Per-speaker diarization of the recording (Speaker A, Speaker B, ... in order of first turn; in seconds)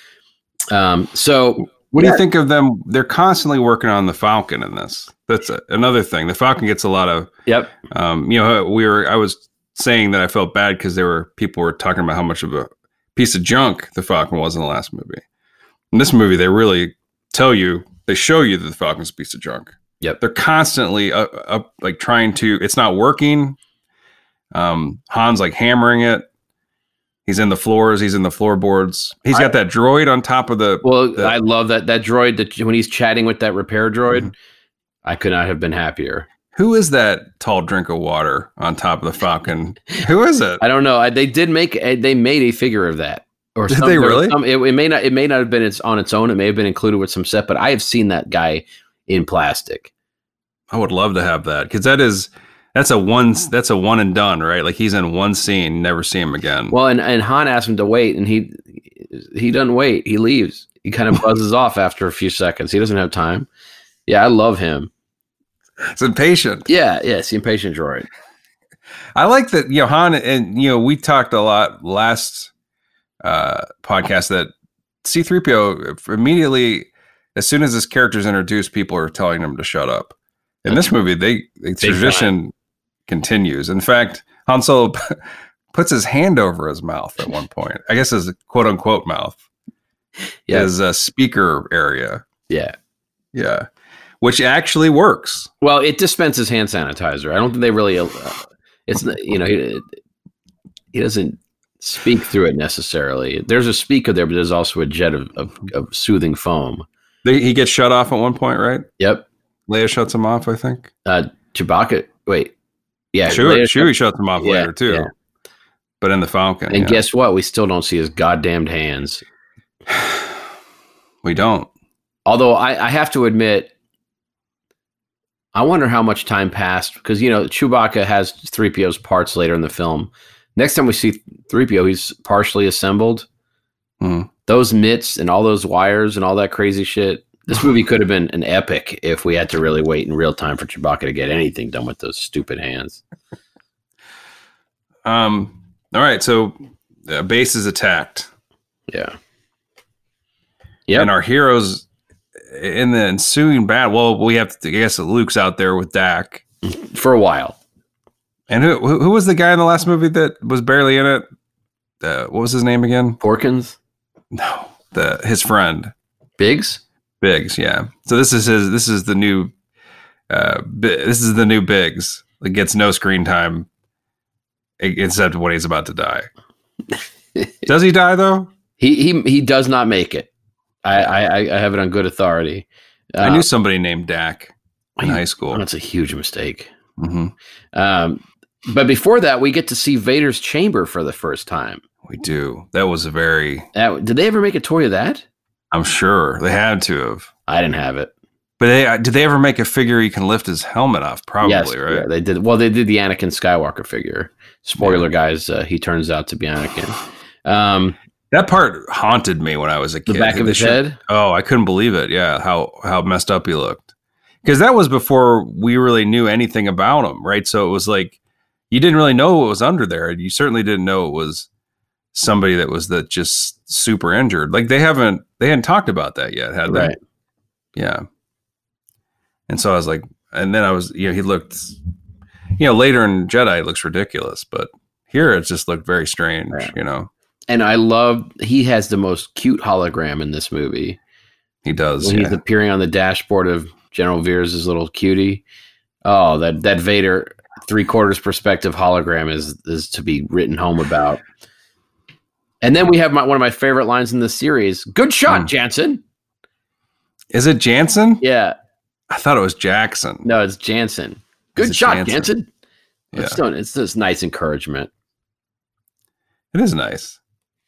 Speaker A: 0.7-2.2, 7.5-7.7, 30.8-34.3, 35.0-36.3, 40.6-49.9, 56.7-63.5, 64.1-64.9, 66.7-68.1, 81.8-82.3, 92.5-92.7, 95.6-99.9, 100.9-106.8, 109.0-109.3, 111.0-112.5, 113.1-115.1, 116.7-119.2, 122.2-123.7, 125.5-133.3, 134.5-143.0, 148.9-149.2, 156.6-157.6, 163.2-163.8, 166.4-166.8, 178.8-180.3, 180.8-183.4, 185.0-186.7, 187.7-191.8, 193.7-195.2, 197.5-198.1, 201.4-208.0, 210.1-211.0, 226.7-227.0, 237.5-241.0, 242.0-245.4, 246.0-251.2, 252.6-256.0, 258.2-258.6, 260.2-262.5, 263.1-264.9
Speaker B: 1.9-7.3, 7.9-15.2, 15.9-23.6, 24.5-26.3, 27.2-31.4, 36.5-40.6, 43.7-44.4, 50.7-56.7, 65.8-66.7, 69.1-72.5, 73.2-74.5, 75.0-80.1, 80.6-82.5, 83.1-85.2, 85.7-89.4, 90.5-92.2, 93.3-93.7, 94.2-95.5, 107.2-108.9, 109.7-110.9, 113.3-115.1, 116.0-117.0, 121.2-121.7, 134.0-134.3, 145.0-148.3, 150.9-151.8, 152.4-156.4, 158.5-161.2, 162.0-163.2, 164.3-165.9, 167.2-169.5, 170.3-173.7, 174.8-176.3, 177.7-178.5, 183.2-185.6, 187.0-187.3, 192.0-193.7, 195.7-197.3, 198.6-202.1, 204.8-205.1, 208.3-213.9, 214.4-218.2, 218.7-221.5, 222.1-226.9, 227.8-228.0, 229.5-231.8, 232.6-237.1, 241.6-242.4, 257.3-258.2, 259.1-260.2, 261.6-262.3, 263.1-263.4, 266.5-267.2